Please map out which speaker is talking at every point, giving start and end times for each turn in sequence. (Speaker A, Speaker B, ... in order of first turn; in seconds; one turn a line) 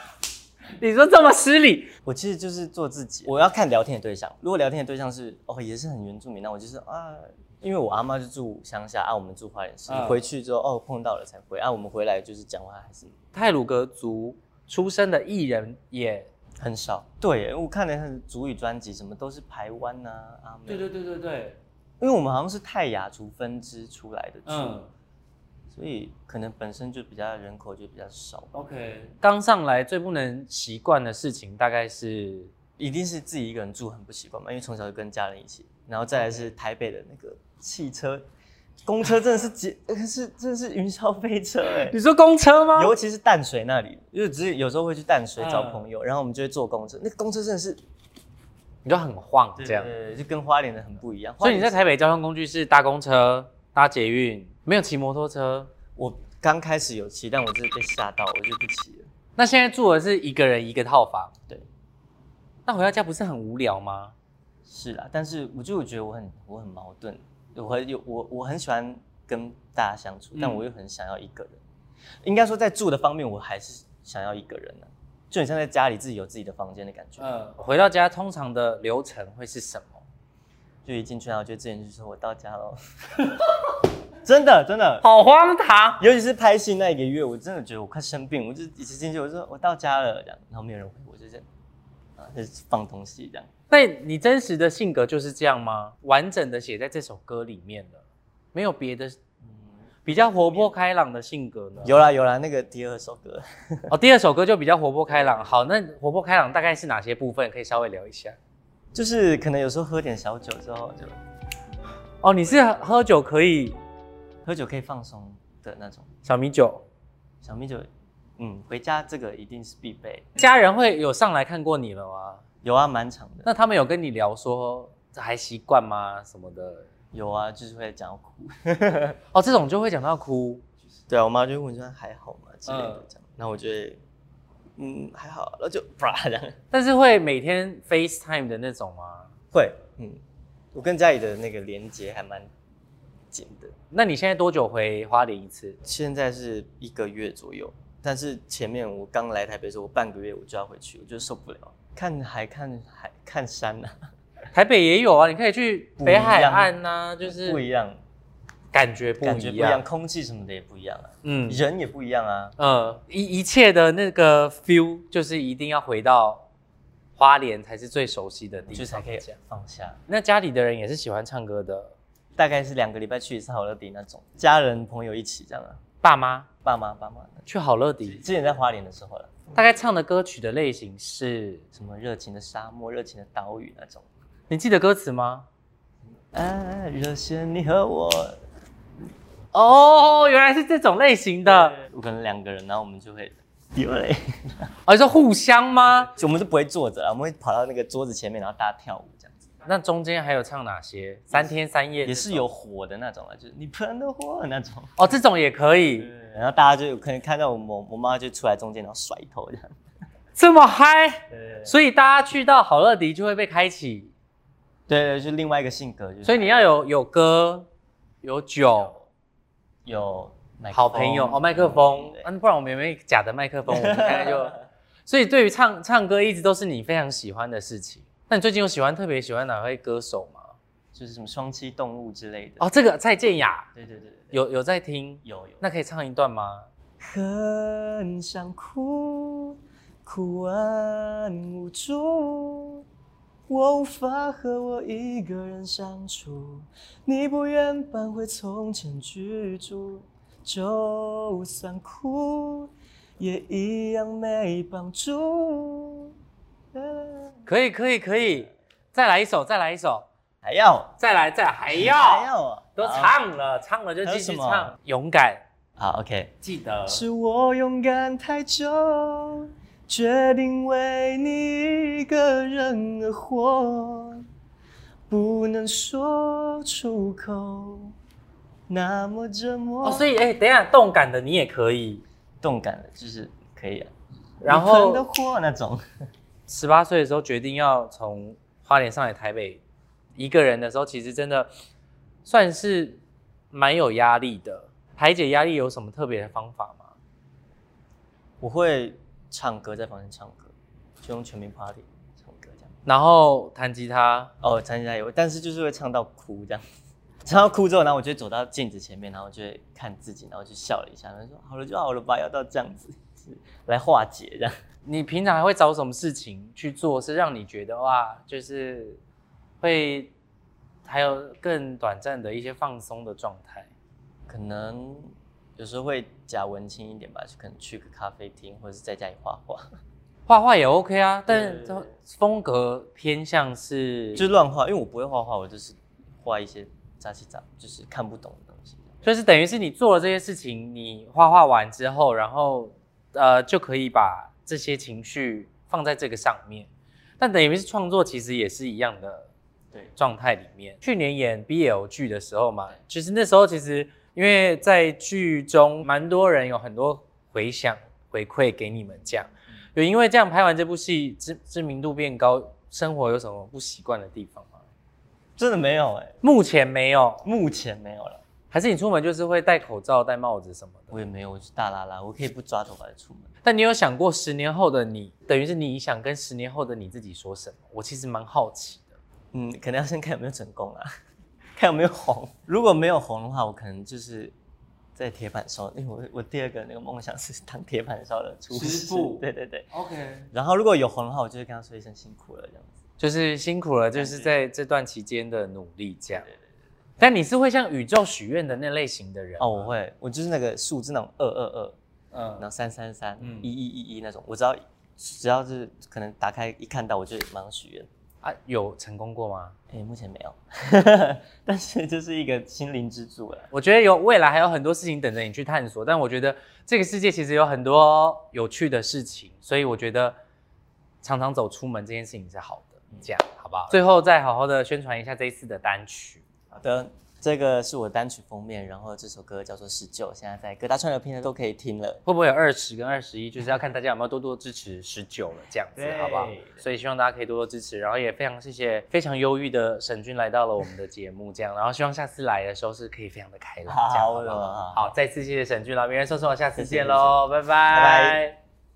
Speaker A: 0.8-1.9
Speaker B: 2.0-13.1
Speaker A: 9.9-10.2
Speaker A: 13.3-16.3
Speaker B: 16.6-20.9
Speaker A: 20.7-21.6
Speaker B: 22.0-24.8
Speaker A: 24.4-24.9
Speaker B: 25.7-28.5
Speaker A: 28.5-32.5
Speaker B: 32.8-38.2
Speaker A: 36.1-36.5
Speaker B: 38.9-42.0
Speaker A: 41.8-42.9
Speaker B: 42.7-47.8
Speaker A: 45.4-45.8
Speaker A: 48.8-49.9
Speaker B: 49.6-51.9
Speaker A: 51.4-55.7
Speaker B: 56.0-59.1
Speaker A: 59.4-61.3
Speaker A: 62.7-64.1
Speaker B: 64.7-71.6
Speaker A: 70.3-70.6
Speaker B: 72.2-77.3
Speaker A: 77.2-80.0
Speaker B: 80.8-82.8
Speaker B: 84.2-85.0
Speaker A: 85.0-86.0
Speaker B: 86.0-91.5
Speaker B: 92.2-93.5
Speaker A: 93.7-98.0
Speaker A: 98.5-99.2
Speaker B: 99.5-100.7
Speaker A: 100.0-102.0
Speaker B: 101.8-103.9
Speaker A: 103.9-108.4
Speaker B: 105.1-105.6
Speaker B: 108.9-111.1
Speaker A: 112.2-113.8
Speaker B: 112.4-112.9
Speaker B: 114.4-116.1
Speaker A: 116.2-116.8
Speaker B: 117.4-117.9
Speaker B: 118.4-120.3
Speaker A: 120.4-122.4
Speaker B: 122.6-123.5
Speaker A: 123.4-126.9
Speaker B: 127.1-129.2
Speaker A: 129.3-130.6
Speaker B: 131.1-134.0
Speaker A: 132.7-133.0
Speaker B: 134.8-136.6
Speaker A: 136.7-139.3
Speaker B: 139.5-140.2
Speaker B: 140.7-142.5
Speaker B: 143.3-143.7
Speaker A: 143.9-145.8
Speaker B: 145.8-153.9
Speaker A: 154.5-157.6
Speaker B: 156.0-158.0
Speaker A: 158.7-159.8
Speaker B: 159.2-162.6
Speaker A: 161.2-161.6
Speaker A: 162.6-166.4
Speaker A: 167.2-169.3
Speaker B: 168.7-170.0
Speaker A: 170.1-171.9
Speaker B: 172.3-175.8
Speaker A: 176.0-176.5
Speaker B: 176.6-177.4
Speaker A: 177.5-178.2
Speaker B: 178.0-179.6
Speaker A: 179.5-181.6
Speaker B: 181.7-184.1
Speaker A: 184.5-185.5
Speaker B: 186.3-188.4
Speaker A: 189.5-191.8
Speaker B: 191.4-194.7
Speaker A: 194.8-196.1
Speaker B: 196.0-199.4
Speaker A: 199.6-202.4
Speaker B: 201.3-204.9
Speaker A: 205.0-206.1
Speaker B: 206.0-209.7
Speaker A: 210.3-214.1
Speaker B: 211.3-211.8
Speaker B: 214.9-216.4
Speaker A: 216.2-217.7
Speaker A: 218.2-219.0
Speaker B: 219.8-222.3
Speaker A: 220.7-230.5
Speaker B: 223.7-224.6
Speaker B: 230.9-232.7
Speaker A: 232.6-233.7
Speaker B: 233.7-234.4
Speaker A: 234.3-236.7
Speaker B: 235.2-235.6
Speaker B: 237.0-242.8
Speaker B: 243.5-256.1
Speaker B: 256.7-257.5
Speaker A: 257.4-260.1
Speaker B: 260.4-260.9
Speaker A: 261.0-265.4
Speaker B: 261.7-263.2
Speaker B: 264.0-264.7
Speaker B: 265.8-266.3
Speaker A: 266.4-267.0
Speaker B: 266.9-274.2
Speaker B: 275.1-277.9
Speaker B: 278.7-280.1
Speaker A: 279.8-282.0
Speaker B: 282.4-283.9
Speaker A: 284.4-285.1
Speaker B: 284.4-285.8
Speaker A: 286.5-289.6
Speaker A: 290.2-291.5
Speaker A: 292.2-293.0
Speaker A: 293.5-296.9
Speaker B: 298.4-302.7
Speaker A: 302.9-304.3
Speaker B: 304.4-306.6
Speaker B: 307.2-314.5
Speaker A: 314.9-319.0
Speaker A: 319.6-320.1
Speaker A: 320.8-323.7
Speaker B: 324.3-329.7
Speaker A: 330.3-334.3
Speaker B: 331.3-331.9
Speaker B: 334.1-339.0
Speaker A: 339.0-346.7
Speaker A: 347.2-349.3
Speaker A: 349.9-364.6
Speaker B: 365.4-366.1
Speaker A: 366.2-367.2
Speaker B: 367.2-368.2
Speaker A: 368.5-371.0
Speaker B: 370.9-373.3
Speaker A: 373.4-378.9
Speaker B: 379.3-380.9
Speaker B: 381.6-384.3
Speaker B: 384.9-389.7
Speaker A: 388.5-390.3
Speaker B: 390.3-392.7
Speaker A: 393.0-396.3
Speaker B: 393.9-394.3
Speaker A: 397.0-399.7
Speaker B: 399.4-401.8
Speaker A: 402.1-402.4
Speaker B: 402.4-407.9
Speaker A: 403.2-403.5
Speaker A: 408.2-409.5
Speaker B: 409.7-413.5
Speaker A: 413.5-420.2
Speaker A: 421.0-426.2
Speaker B: 426.5-432.0
Speaker A: 432.1-448.4
Speaker B: 435.8-436.6
Speaker B: 443.6-444.9
Speaker B: 446.6-448.2